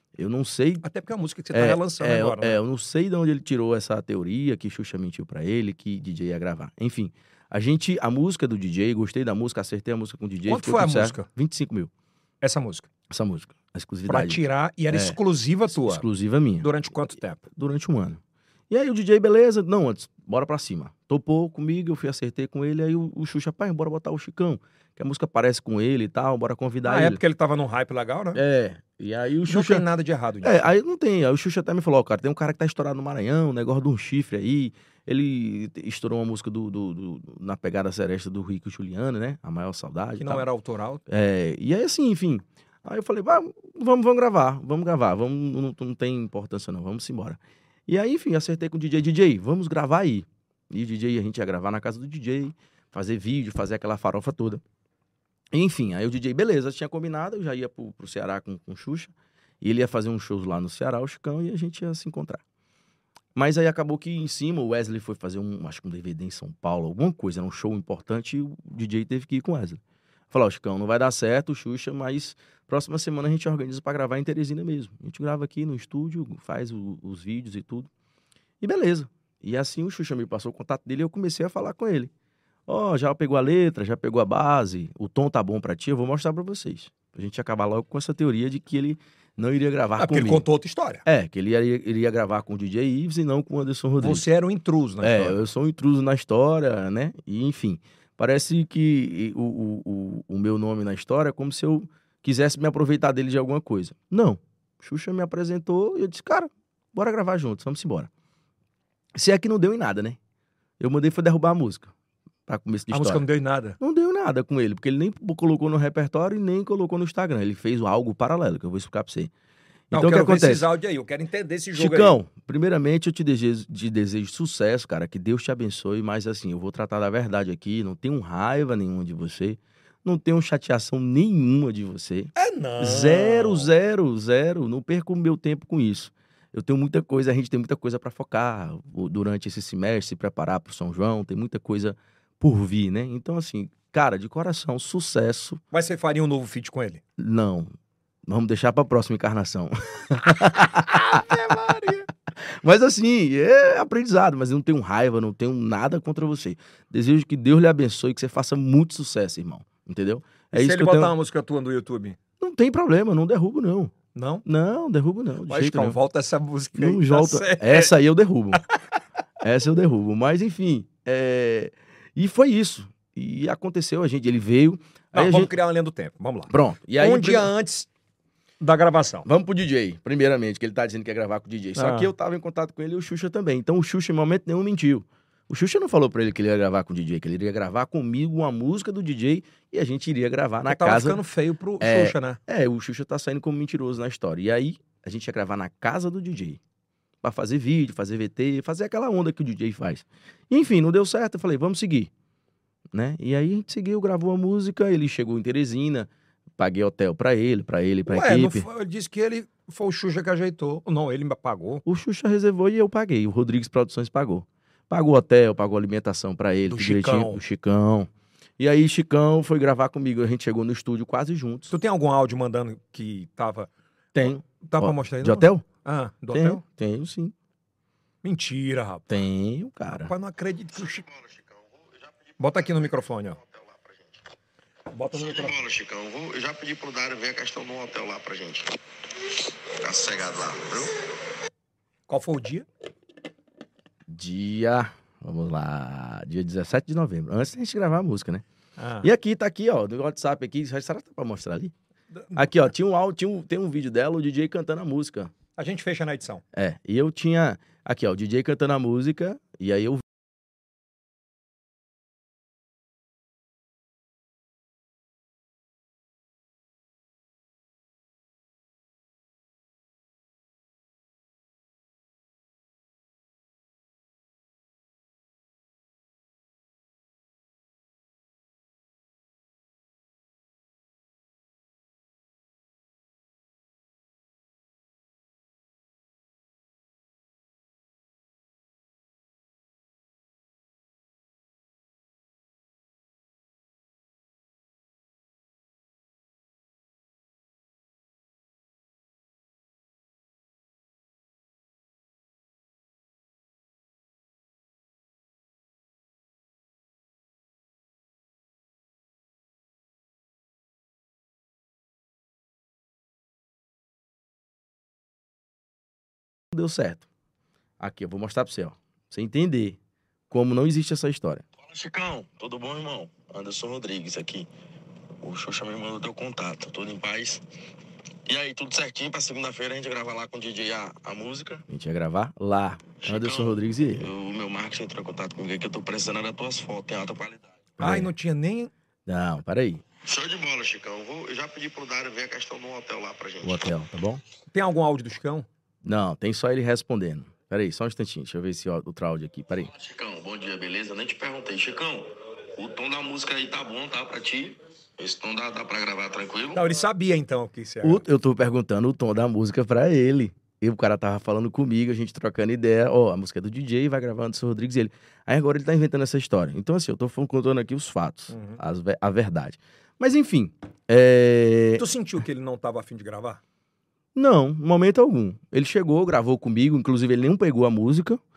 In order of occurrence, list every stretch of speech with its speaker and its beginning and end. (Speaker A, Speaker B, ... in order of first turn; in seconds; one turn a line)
Speaker A: 0.2-0.8
Speaker B: 0.8-2.6
Speaker A: 1.5-11.9
Speaker B: 10.5-11.3
Speaker B: 12.4-12.9
Speaker A: 13.1-15.2
Speaker B: 14.1-16.1
Speaker A: 15.7-16.8
Speaker B: 16.6-17.4
Speaker A: 17.5-27.2
Speaker B: 26.9-28.4
Speaker A: 28.3-29.9
Speaker B: 29.5-30.7
Speaker A: 30.4-40.5
Speaker B: 40.2-41.0
Speaker A: 41.1-54.6
Speaker A: 55.5-62.4
Speaker A: 63.4-77.9
Speaker A: 78.6-82.1
Speaker A: 82.7-90.5
Speaker B: 90.0-91.0
Speaker A: 91.0-94.3
Speaker B: 94.0-95.4
Speaker A: 95.0-108.1
Speaker A: 109.2-110.2
Speaker A: 110.8-111.9
Speaker A: 112.5-113.2
Speaker B: 112.9-113.8
Speaker A: 113.8-119.3
Speaker A: 119.9-120.7
Speaker B: 119.9-122.2
Speaker A: 121.8-145.6
Speaker B: 132.4-133.7
Speaker B: 145.7-147.0
Speaker A: 147.2-147.7
Speaker A: 148.3-151.4
Speaker B: 150.7-152.1
Speaker A: 152.4-161.2
Speaker B: 160.5-162.2
Speaker A: 162.4-163.9
Speaker B: 164.2-164.4
Speaker A: 164.4-166.0
Speaker B: 165.5-167.9
Speaker A: 166.8-168.6
Speaker A: 169.4-175.5
Speaker B: 175.1-177.9
Speaker A: 176.5-177.5
Speaker B: 178.6-179.3
Speaker A: 179.2-191.2
Speaker B: 181.8-182.1
Speaker B: 190.7-192.4
Speaker A: 191.8-196.6
Speaker A: 197.2-202.1
Speaker A: 202.9-208.7
Speaker B: 208.1-211.8
Speaker A: 211.8-221.7
Speaker B: 216.7-217.4
Speaker B: 221.7-223.7
Speaker A: 224.2-225.7
Speaker B: 224.5-226.6
Speaker A: 226.3-227.3
Speaker B: 228.2-229.1
Speaker A: 229.1-230.1
Speaker B: 229.9-231.1
Speaker C: 230.7-234.2
Speaker B: 232.4-233.4
Speaker B: 234.9-235.6
Speaker C: 235.1-238.8
Speaker C: 239.8-241.0
Speaker B: 242.1-242.7
Speaker A: 244.1-248.4
Speaker B: 248.8-249.1
Speaker A: 249.0-251.7
Speaker B: 252.1-252.5
Speaker A: 252.3-255.3
Speaker B: 255.6-256.4
Speaker A: 256.5-260.0
Speaker A: 316.5-317.1
Speaker A: 317.8-319.8
Speaker A: 320.3-321.4
Speaker C: 321.6-324.5
Speaker C: 325.2-327.4
Speaker C: 328.3-331.6
Speaker A: 331.7-334.1
Speaker C: 333.0-337.7
Speaker A: 337.8-338.1
Speaker B: 337.8-338.7
Speaker A: 339.1-339.8
Speaker C: 340.0-343.6
Speaker A: 343.4-344.2
Speaker B: 344.5-345.5
Speaker A: 345.8-349.7
Speaker C: 349.7-356.6
Speaker B: 356.6-358.0
Speaker A: 357.8-371.9
Speaker B: 368.3-368.6
Speaker B: 371.8-373.4
Speaker A: 374.1-378.2